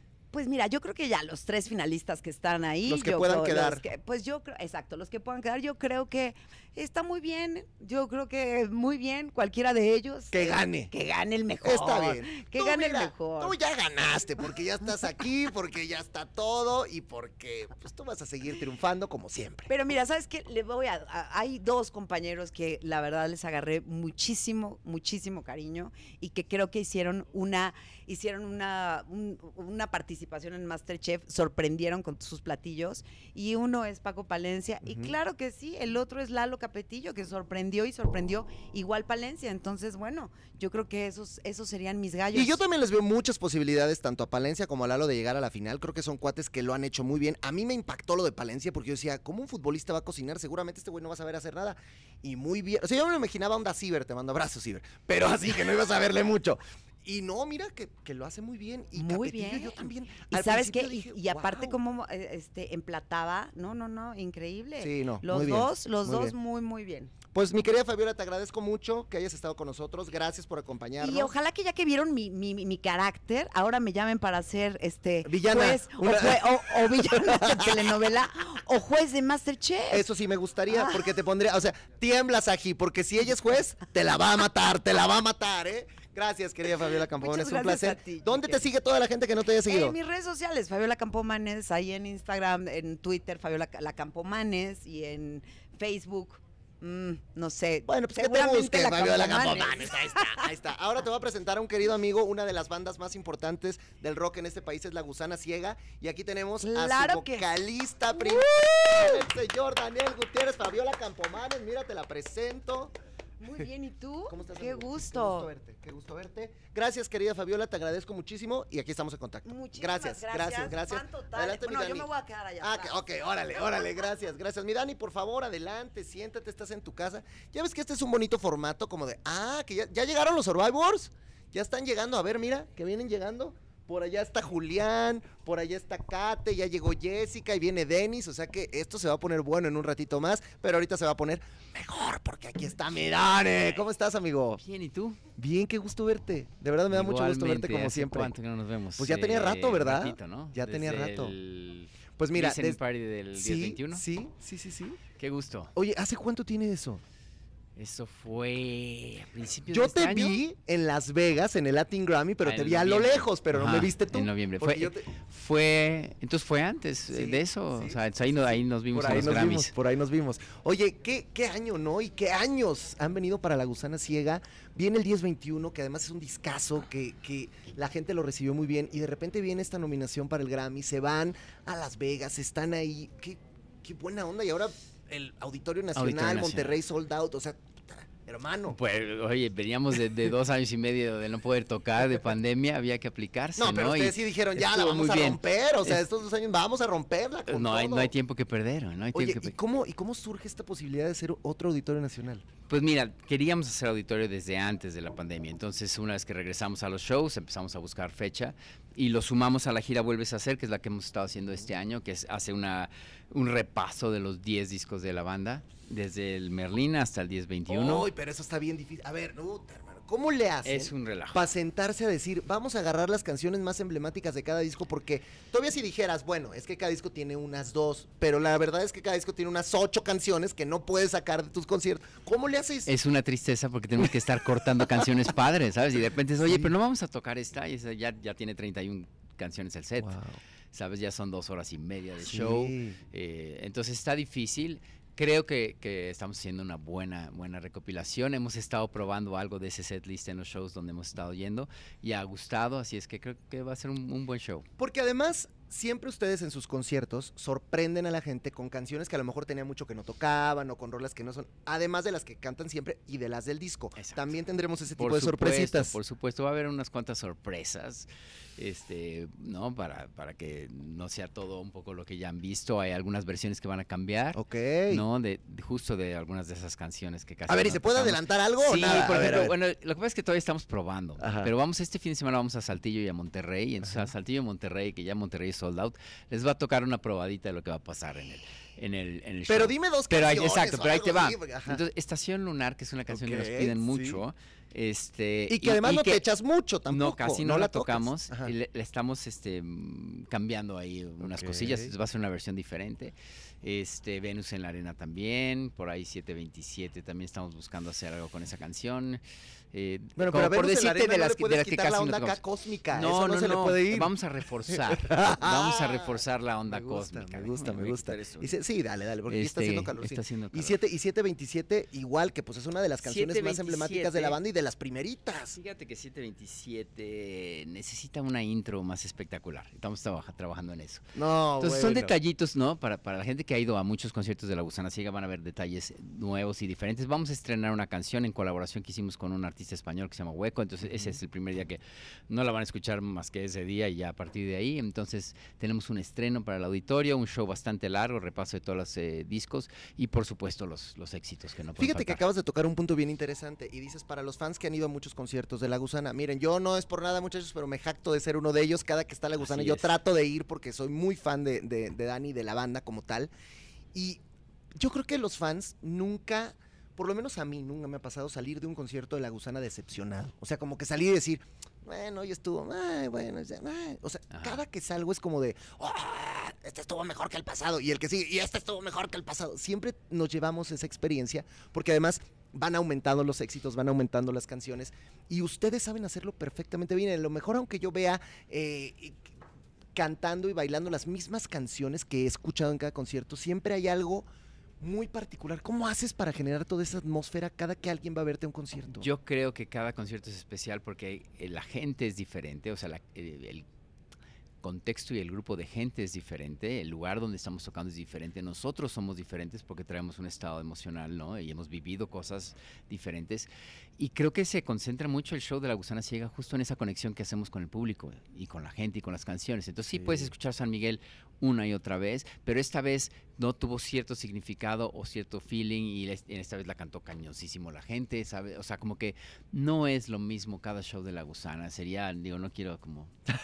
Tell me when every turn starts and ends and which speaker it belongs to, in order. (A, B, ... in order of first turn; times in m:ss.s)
0:00.3-0:13.6 A
0:02.8-0:03.8 B
0:10.3-0:10.9 B
0:11.6-0:19.7 B
0:19.7-0:42.6 A
0:34.8-0:35.1 B
0:42.3-1:01.8 B
0:58.9-1:07.1 A
1:04.8-1:06.3 B
1:07.3-1:11.3 B
1:11.0-1:20.0 A
1:15.2-1:17.9 B
1:19.9-1:29.9 B
1:20.7-1:21.0 A
1:27.2-1:28.6 A
1:29.6-1:40.4 A
1:37.9-1:52.9 B
1:46.6-1:47.5 A
1:48.1-1:49.2 A
1:53.4-1:55.5 A
1:54.3-2:02.1 B
1:59.4-2:03.0 A
2:02.6-2:24.6 B
2:24.6-2:25.2 C
2:25.4-2:28.3 B
2:26.9-2:34.0 C
2:29.0-2:31.3 B
2:32.2-2:32.8 B
2:33.4-2:35.0 B
2:35.2-2:35.7 C
2:35.7-2:37.0 B
2:37.8-2:40.4 C
2:39.7-2:45.1 B
2:42.4-2:49.7 C
2:47.1-3:08.8 B
3:05.9-3:06.8 C
3:08.8-3:16.0 C
3:13.6-3:18.1 B
3:17.5-3:19.5 C
3:19.1-3:22.5 B
3:22.7-3:38.1 C
3:37.7-3:52.9 B
3:40.6-3:41.4 C
3:52.8-4:00.2 C
3:56.4-3:56.7 B
4:00.0-4:00.4 B
4:00.7-4:14.7 C
4:02.2-4:03.0 B
4:14.8-4:25.9 B
4:24.0-4:24.2 C
4:25.0-4:56.2 C
4:34.3-4:35.0 B
4:37.5-4:39.5 B
4:41.2-4:41.5 B
4:49.5-4:51.8 B
4:53.1-4:54.2 B
4:55.5-4:58.5 B
4:56.9-5:09.2 C
5:01.2-5:01.9 B
5:09.7-5:12.4 C
5:10.2-5:14.1 B
5:12.9-5:18.5 C
5:14.7-5:16.2 B
5:16.7-5:25.6 B
5:19.3-5:20.8 C
5:23.0-5:24.4 C
5:25.5-5:52.2 C
5:31.1-5:32.1 B
5:40.8-5:41.2 B
5:51.8-6:03.3 B
5:59.4-5:59.9 C
6:03.9-6:04.2 B
6:04.8-6:29.3 B
6:14.3-6:14.6 C
6:29.9-6:34.3 B
6:34.8-6:39.1 B
6:39.0-6:43.6 C
6:44.6-7:13.1 C
6:59.9-7:00.3 B